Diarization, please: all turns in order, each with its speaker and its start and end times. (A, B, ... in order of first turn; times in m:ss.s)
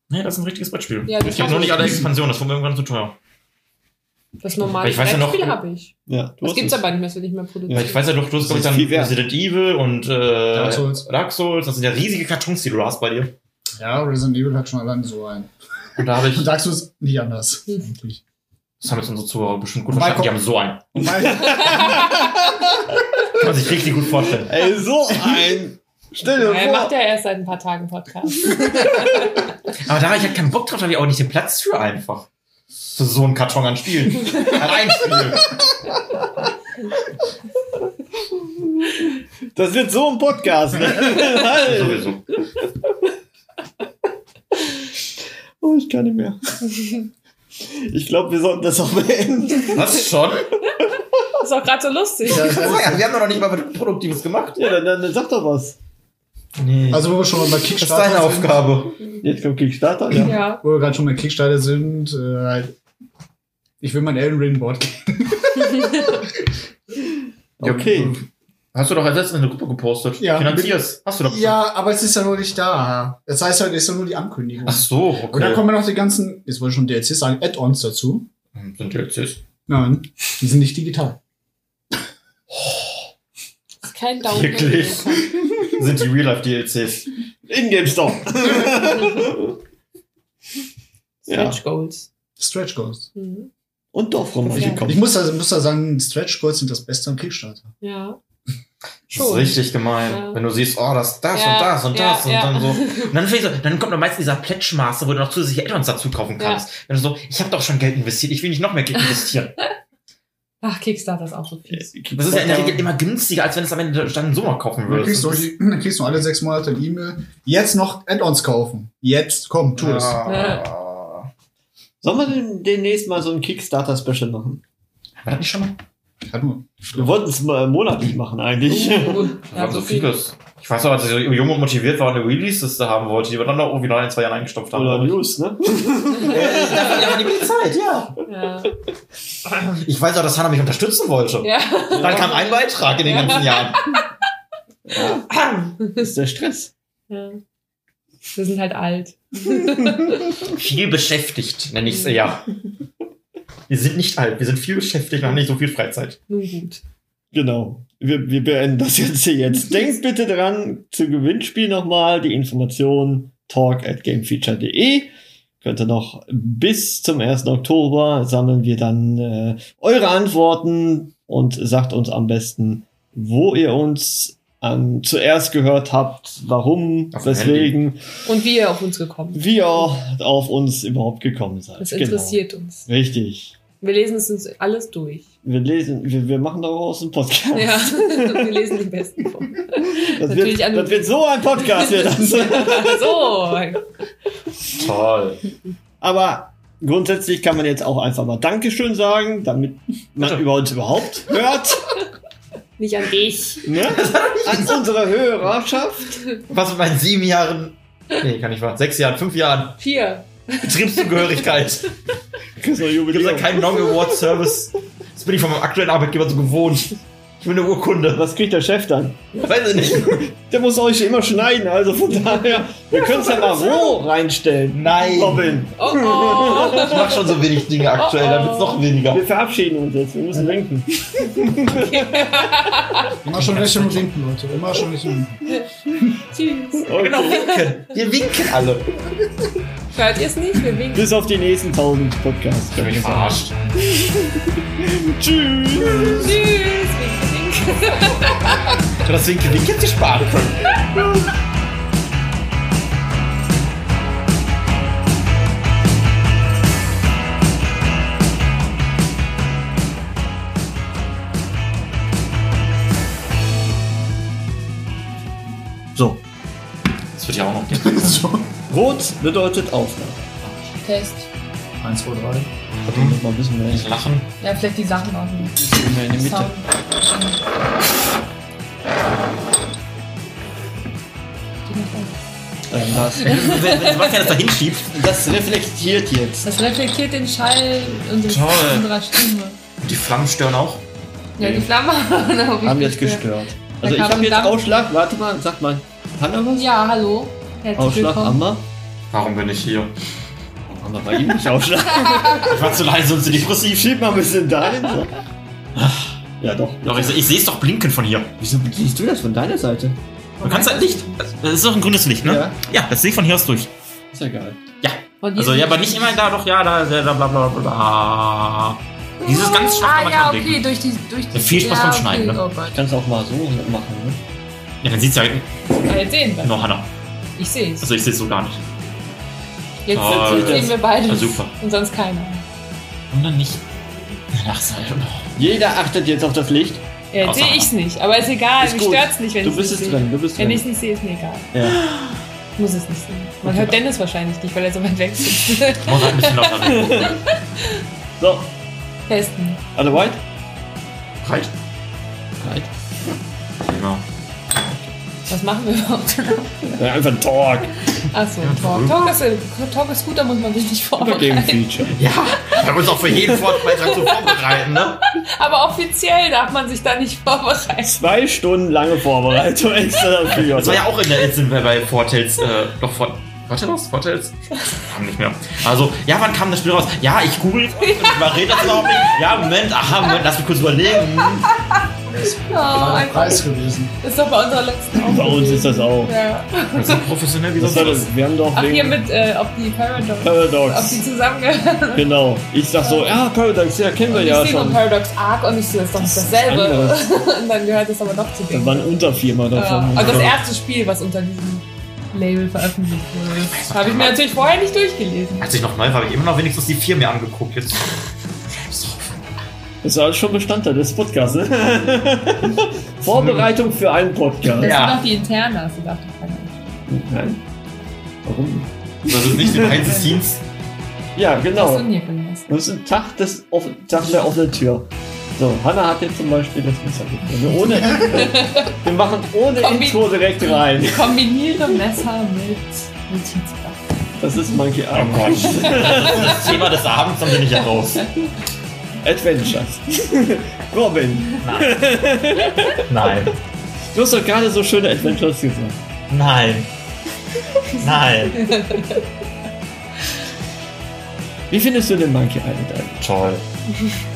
0:00.1-0:03.2 A
0:01.1-0:02.1 B
0:04.4-0:08.0 B
0:04.8-0:05.6 A
0:06.1-0:06.8 C
0:07.7-0:09.2 C
0:07.7-0:13.4 A
0:10.5-0:11.1 D
0:13.8-0:15.5 D
0:16.0-0:16.5 A
0:16.0-0:18.2 D
0:18.8-0:21.3 A
0:19.9-0:20.4 D
0:21.0-0:22.1 D
0:21.3-0:22.7 C
0:23.3-0:24.5 A
0:24.4-0:26.9 C
0:26.2-0:29.3 B
0:29.8-0:32.3 A
0:32.9-0:35.6 A
0:39.5-0:42.9 C
0:41.2-0:42.2 A
0:45.6-0:46.4 C
0:47.6-0:50.1 C
0:49.7-0:50.5 A
0:51.4-0:52.7 B
0:52.2-0:53.1 D
0:52.3-0:54.7 A
0:54.6-0:55.8 C
0:56.6-0:59.0 A
0:56.9-0:58.7 D
0:59.2-1:00.4 C
1:00.2-1:00.6 B
1:00.6-1:02.7 D
1:03.8-1:06.3 D
1:07.6-1:08.2 C
1:07.6-1:11.6 A
1:10.2-1:18.3 D
1:14.7-1:15.7 A
1:18.6-1:19.4 A
1:19.7-1:21.2 D
1:22.5-1:22.9 A
1:23.8-1:25.4 B
1:24.2-1:27.1 A
1:27.5-1:29.6 C
1:31.3-1:31.6 C
1:31.3-1:32.1 B
1:32.4-1:33.1 D
1:33.2-1:33.5 B
1:33.9-1:35.1 C
1:34.6-1:34.9 B
1:34.6-1:37.7 D
1:37.8-1:38.2 B
1:39.1-1:49.6 A
1:39.1-1:40.4 B
1:41.3-1:43.1 B
1:46.4-1:46.6 B
1:50.6-1:51.9 B
1:51.7-1:52.9 C
1:52.1-1:55.5 A
1:54.9-2:00.2 D
1:59.8-2:01.3 A
2:00.3-2:00.6 B
2:02.0-2:04.6 C
2:05.2-2:05.8 A
2:06.2-2:07.2 D
2:07.0-2:09.3 C
2:08.7-2:10.2 B
2:09.5-2:15.2 A
2:14.7-2:17.2 C
2:16.3-2:18.1 A
2:18.3-2:18.7 B
2:19.5-2:24.0 A
2:21.4-2:24.1 B
2:21.9-2:22.4 C
2:24.9-2:26.7 C
2:25.5-2:26.0 B
2:27.1-2:27.4 B
2:28.4-2:30.4 B
2:30.5-2:32.5 A
2:33.7-2:36.2 A
2:36.3-2:36.8 B
2:37.3-2:58.0 C
2:57.1-2:57.8 A
2:58.2-2:59.9 B
2:59.3-3:03.6 C
3:01.8-3:02.9 B
3:03.8-3:05.3 B
3:05.4-3:08.6 C
3:07.5-3:13.9 B
3:09.8-3:13.3 C
3:14.7-3:15.4 A
3:16.0-3:22.0 C
3:20.2-3:20.4 A
3:22.8-3:23.7 B
3:23.7-3:26.2 C
3:23.7-3:24.8 A
3:26.5-3:29.8 A
3:29.8-3:31.3 B
3:30.6-3:31.9 A
3:32.6-3:33.9 C
3:33.1-3:38.2 A
3:38.2-3:39.4 C
3:39.4-3:40.3 A
3:40.0-3:47.1 C
3:44.7-3:45.6 A
3:45.8-3:47.2 B
3:46.7-3:49.2 A
3:47.9-3:48.8 B
3:49.1-3:52.5 C
3:51.7-3:53.2 B
3:53.2-3:54.1 A
3:53.2-3:55.4 D
3:56.3-3:57.9 B
3:56.8-3:57.5 C
3:57.3-3:59.0 A
3:59.9-4:01.2 B
4:00.9-4:06.4 C
4:02.8-4:03.6 A
4:06.1-4:08.8 B
4:09.0-4:10.9 A
4:11.0-4:11.3 C
4:26.0-4:26.2 C
4:27.2-4:28.4 A
4:27.8-4:28.5 D
4:28.7-4:30.3 C
4:30.8-4:31.3 B
4:31.8-4:32.5 D
4:32.9-4:33.9 C
4:32.9-4:34.3 A
4:34.4-4:37.4 B
4:35.6-4:36.5 C
4:41.7-4:42.2 B
4:42.7-4:43.7 C
4:43.2-4:45.0 A
4:43.2-4:44.3 B
4:44.9-4:46.5 C
4:46.4-4:49.6 B
4:48.2-4:48.9 A
4:49.8-4:50.8 A
4:51.4-4:54.6 B
4:52.6-4:56.7 C
4:56.5-4:58.4 B
4:57.8-4:58.7 C
4:59.1-4:59.9 A
5:00.7-5:02.6 C
5:02.0-5:02.5 B
5:02.4-5:03.9 A
5:03.8-5:05.2 C
5:05.8-5:07.3 C
5:06.8-5:08.3 A
5:08.4-5:10.0 C
5:10.4-5:11.2 B
5:10.4-5:13.7 A
5:12.2-5:12.6 C
5:14.1-5:14.6 C
5:14.8-5:20.6 A
5:15.2-5:16.2 B
5:19.2-5:22.8 B
5:21.3-5:22.4 A
5:22.7-5:24.2 C
5:24.8-5:25.5 A
5:25.8-5:26.6 B
5:26.4-5:26.9 A
5:27.4-5:27.9 B
5:27.8-5:28.6 A
5:29.9-5:32.4 B
5:29.9-5:31.5 A
5:29.9-5:30.8 C
5:33.1-5:33.6 A
5:34.3-5:35.3 A
5:35.4-5:36.8 C
5:37.1-5:41.5 B
5:37.2-5:37.7 A
5:38.6-5:40.7 C
5:41.5-5:41.8 C
5:42.6-5:47.8 B
5:43.4-5:43.8 C
5:45.8-5:47.1 A
5:46.6-5:47.2 C
5:48.2-5:48.5 C
5:49.1-5:49.6 B
5:49.8-5:50.2 C
5:51.2-5:51.5 A
5:52.4-5:52.7 C
5:53.6-5:54.0 A
5:55.3-5:56.8 B
5:56.8-5:57.8 C
5:58.0-6:01.8 B
5:58.4-5:59.2 A
6:01.0-6:02.0 C
6:01.9-6:05.1 A
6:02.3-6:02.8 B
6:03.7-6:04.4 B
6:05.0-6:08.0 B
6:07.8-6:10.9 C
6:10.4-6:21.5 A
6:17.8-6:19.2 B
6:21.5-6:21.8 B
6:22.1-6:23.9 D
6:22.5-6:23.4 B
6:24.0-6:27.1 B
6:25.1-6:26.1 C
6:26.7-6:28.1 A
6:27.6-6:29.0 C
6:28.5-6:32.1 B
6:30.2-6:31.0 C
6:32.0-6:34.8 C
6:32.8-6:33.2 B
6:34.1-6:45.5 B
6:36.0-6:36.4 A
6:36.2-6:37.1 C
6:38.5-6:40.4 C
6:40.0-6:40.4 A
6:43.4-6:44.2 A
6:45.4-6:48.0 A
6:48.5-6:49.2 A
6:49.8-6:54.8 C
6:53.0-6:53.5 A
6:54.5-6:56.6 B
6:54.6-6:55.0 A
6:56.9-6:57.4 C
6:58.2-7:00.1 C
6:59.1-7:00.4 A
7:01.2-7:01.9 C
7:01.6-7:02.5 B
7:02.5-7:11.1 C
7:07.6-7:08.8 B
7:09.6-7:13.8 B
7:14.2-7:16.5 C
7:14.9-7:18.1 A
7:15.9-7:16.2 B
7:19.0-7:23.1 C
7:21.4-7:21.9 A
7:22.8-7:23.4 A
7:23.9-7:25.8 C
7:26.1-7:26.7 A
7:27.8-7:28.6 A
7:28.4-7:29.0 B
7:31.5-7:33.3 C
7:33.0-7:33.4 A